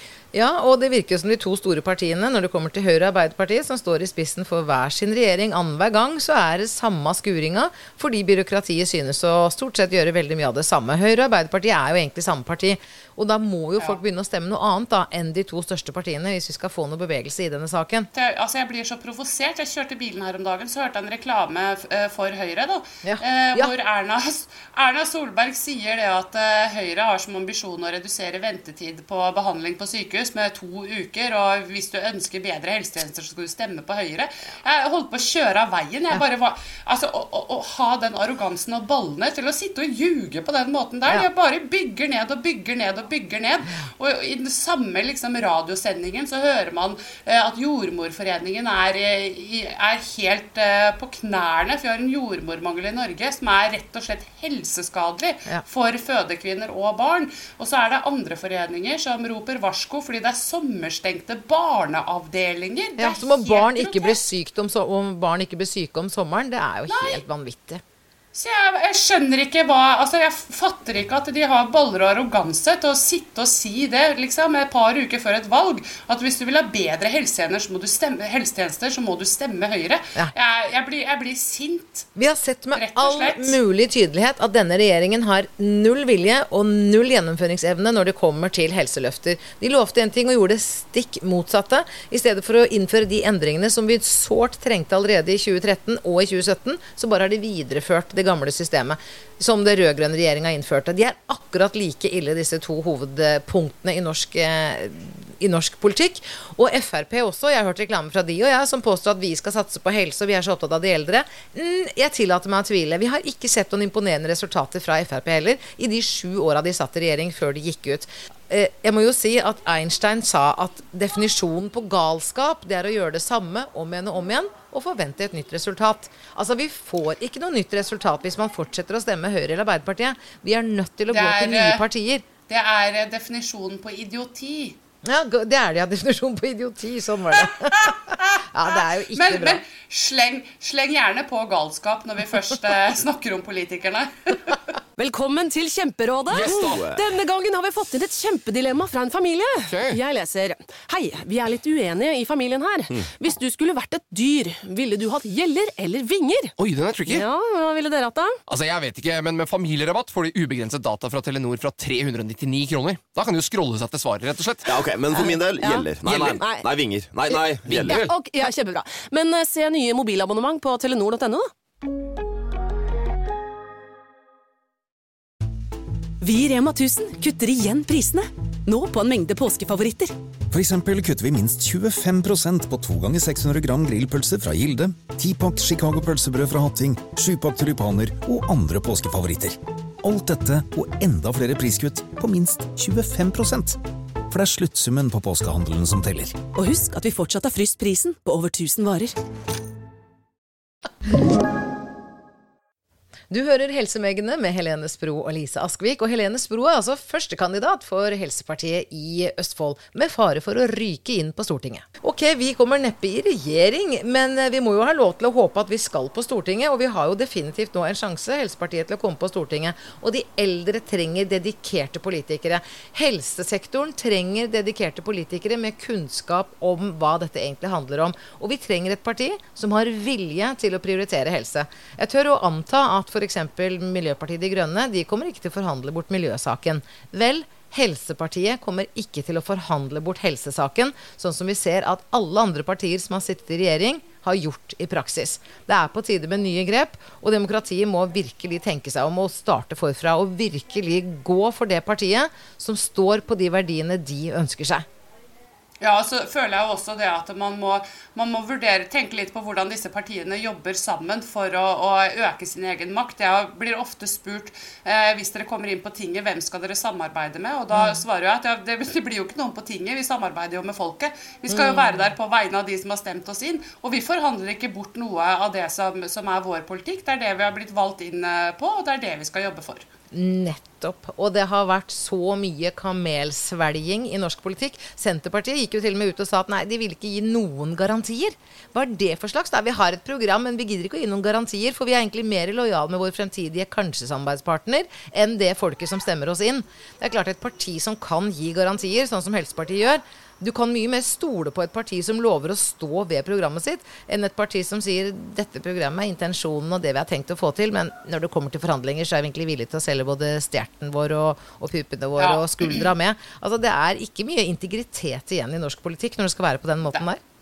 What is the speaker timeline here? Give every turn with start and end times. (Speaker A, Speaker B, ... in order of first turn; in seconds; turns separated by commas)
Speaker A: 0.3-18.1, Speaker B: 18.1-64.2, Speaker A: 23.0-23.7, Speaker A: 63.0-67.8, Speaker B: 66.9-67.2, Speaker B: 68.3-82.1, Speaker A: 82.2-132.2, Speaker B: 82.7-83.6, Speaker B: 131.1-131.8, Speaker B: 132.5-134.8, Speaker A: 135.0-139.6, Speaker B: 138.1-144.6, Speaker C: 145.0-158.4, Speaker D: 146.3-146.8, Speaker E: 146.7-147.0, Speaker D: 149.7-150.0, Speaker D: 156.6-157.2, Speaker D: 158.5-164.8, Speaker E: 164.7-168.0, Speaker C: 165.1-166.7, Speaker D: 166.0-166.5, Speaker D: 167.6-168.2, Speaker C: 167.7-171.5, Speaker F: 176.3-180.0, Speaker C: 176.6-178.2, Speaker C: 178.9-180.1, Speaker G: 180.5-196.4, Speaker F: 196.6-199.1, Speaker A: 203.3-254.8, Speaker B: 255.8-279.9, Speaker A: 267.7-268.0, Speaker A: 271.5-272.1, Speaker A: 280.1-317.2, Speaker B: 312.2-312.8